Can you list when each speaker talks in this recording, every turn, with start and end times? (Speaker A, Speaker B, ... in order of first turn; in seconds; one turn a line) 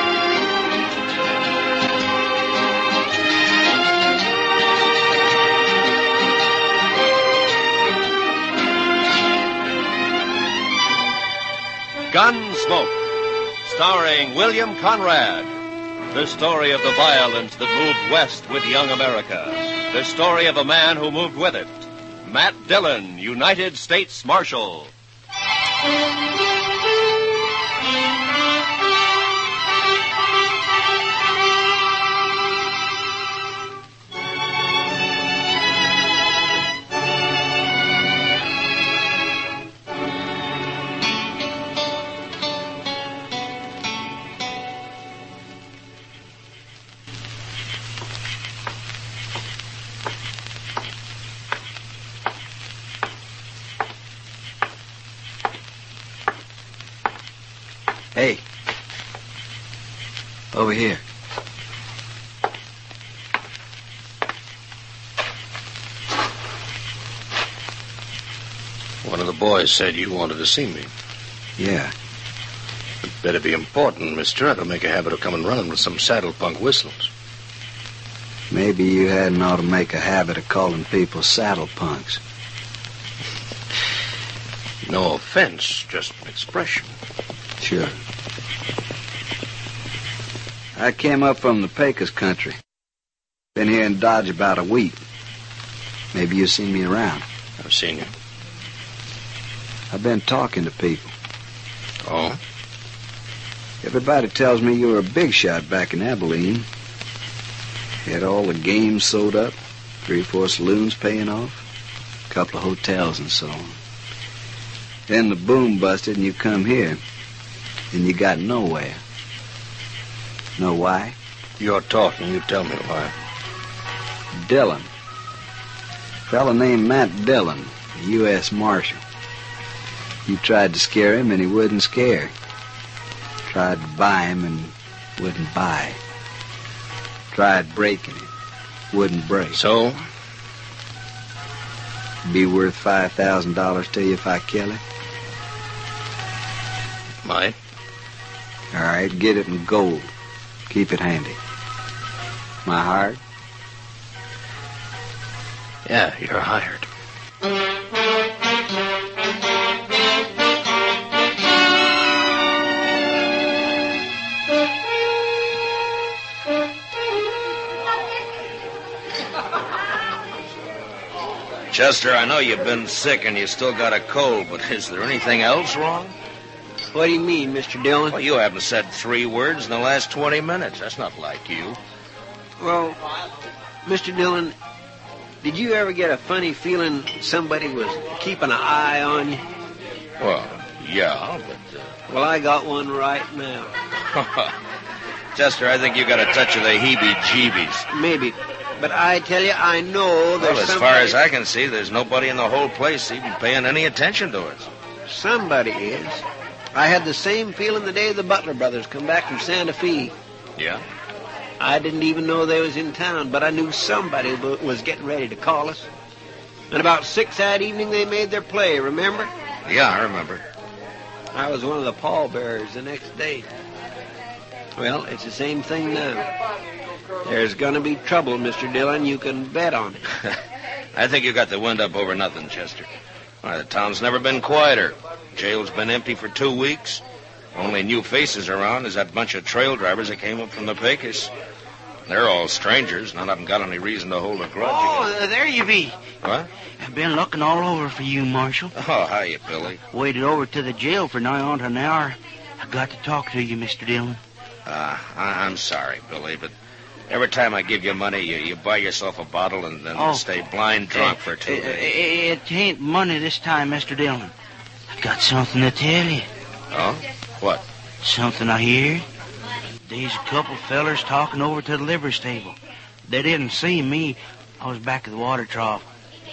Speaker A: 12.1-13.0
Speaker A: 13.6-15.5
Speaker A: 16.1-24.9
Speaker B: 58.1-58.4
Speaker B: 60.5-61.0
Speaker C: 69.0-70.9
Speaker B: 71.6-71.9
Speaker C: 73.0-77.1
Speaker B: 78.5-82.2
Speaker C: 84.8-86.9
Speaker B: 87.6-87.9
Speaker B: 90.8-92.6
Speaker B: 93.5-95.0
Speaker B: 96.1-97.2
Speaker C: 97.6-98.1
Speaker B: 99.9-101.1
Speaker C: 102.0-102.4
Speaker B: 103.8-106.7
Speaker B: 108.0-111.6
Speaker B: 112.3-113.7
Speaker B: 115.1-117.0
Speaker B: 117.9-119.0
Speaker B: 120.6-121.2
Speaker C: 121.6-123.1
Speaker B: 124.3-124.9
Speaker B: 126.3-129.0
Speaker B: 130.2-132.3
Speaker B: 133.5-136.0
Speaker B: 137.3-138.3
Speaker B: 138.9-139.6
Speaker C: 139.5-140.0
Speaker B: 142.2-144.8
Speaker C: 147.2-147.6
Speaker B: 148.7-150.1
Speaker B: 150.7-151.4
Speaker B: 152.6-153.2
Speaker C: 155.8-156.8
Speaker D: 171.7-176.1
Speaker E: 176.9-178.2
Speaker D: 178.1-181.8
Speaker E: 182.6-183.0
Speaker E: 183.8-184.5
Speaker E: 185.4-189.4
Speaker D: 190.2-191.9
Speaker E: 192.1-193.7
Speaker D: 194.1-194.5
Speaker D: 195.3-197.9
Speaker E: 197.9-201.2
Speaker D: 200.4-204.7
Speaker E: 205.1-210.1
Speaker E: 211.6-215.9
Speaker E: 216.7-219.3
Speaker D: 219.6-220.4
Speaker E: 221.3-223.5
Speaker E: 224.8-226.3
Speaker E: 227.2-230.0
Speaker D: 230.9-232.9
Speaker D: 233.4-237.0
Speaker D: 237.5-241.3
Speaker D: 242.1-245.1
Speaker F: 244.6-246.0
Speaker D: 246.2-246.5
Speaker F: 246.8-248.7
Speaker D: 248.7-249.8
Speaker F: 249.9-254.2
Speaker D: 254.7-256.5
Speaker D: 257.1-261.9
Speaker F: 259.9-260.2
Speaker F: 260.9-264.3
Speaker F: 265.0-266.3
Speaker D: 266.7-267.6
Speaker F: 268.0-269.0
Speaker F: 269.9-272.6
Speaker F: 273.1-275.8